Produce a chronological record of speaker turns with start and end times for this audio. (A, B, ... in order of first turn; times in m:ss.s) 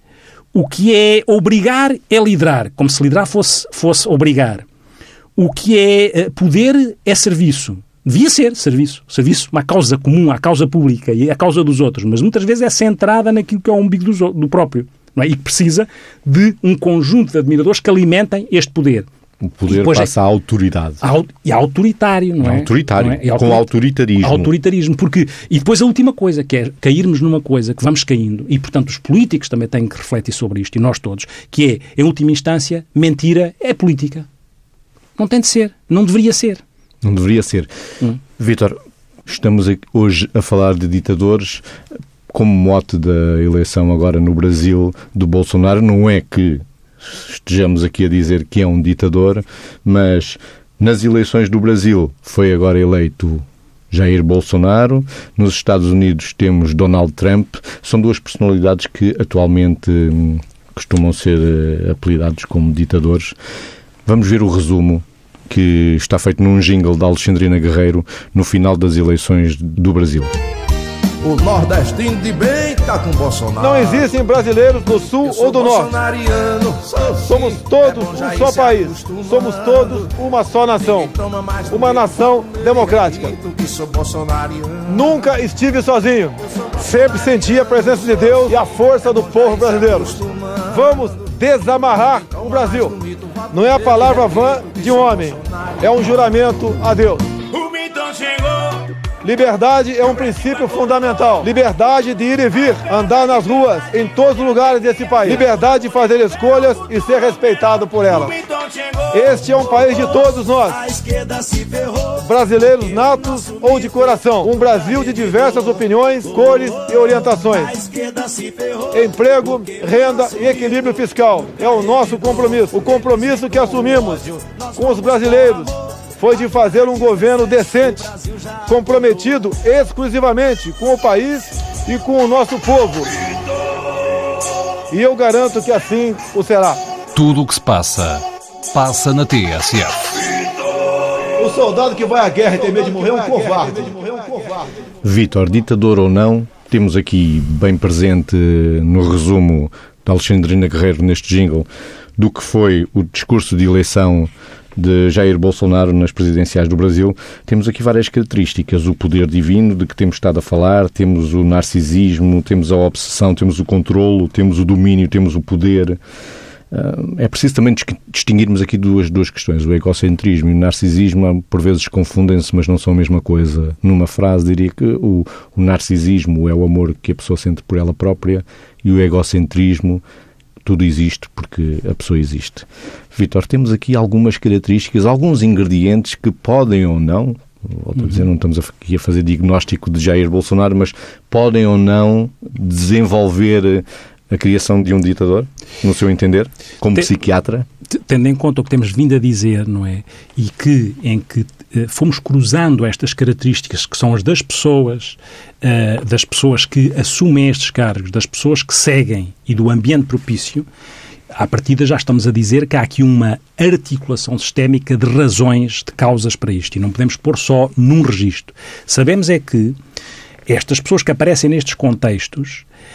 0:00.5-0:04.7 A
0:05.4-0:19.1 A
0:19.4-0:21.0 B
0:19.7-0:20.1 A
0:21.0-0:34.3 A
0:22.4-0:24.5 B
0:35.2-0:36.6 A
0:37.0-0:41.6 B
0:42.3-1:03.4 B
1:04.0-1:10.3 B
1:11.2-1:14.1 C
1:13.6-1:15.9 D
1:15.2-1:20.1 C
1:17.2-1:21.1 D
1:20.8-1:25.2 C
1:21.7-1:23.4 D
1:24.9-1:30.2 D
1:28.4-1:31.0 C
1:30.7-1:32.9 D
1:32.3-1:35.4 C
1:33.5-1:37.2 D
1:39.2-1:48.4 D
1:49.1-1:50.9 D
1:52.1-1:57.8 D
1:58.9-2:08.1 D
2:08.7-2:13.1 D
2:14.9-2:16.8 D
2:17.2-2:18.2 E
2:18.7-2:20.2 E
2:21.4-2:24.7 D
2:25.0-2:46.0 B
2:46.7-3:00.0 B
3:00.6-3:17.7 B
3:17.9-3:30.7 A
3:31.4-3:39.8 A
3:40.5-3:42.7 A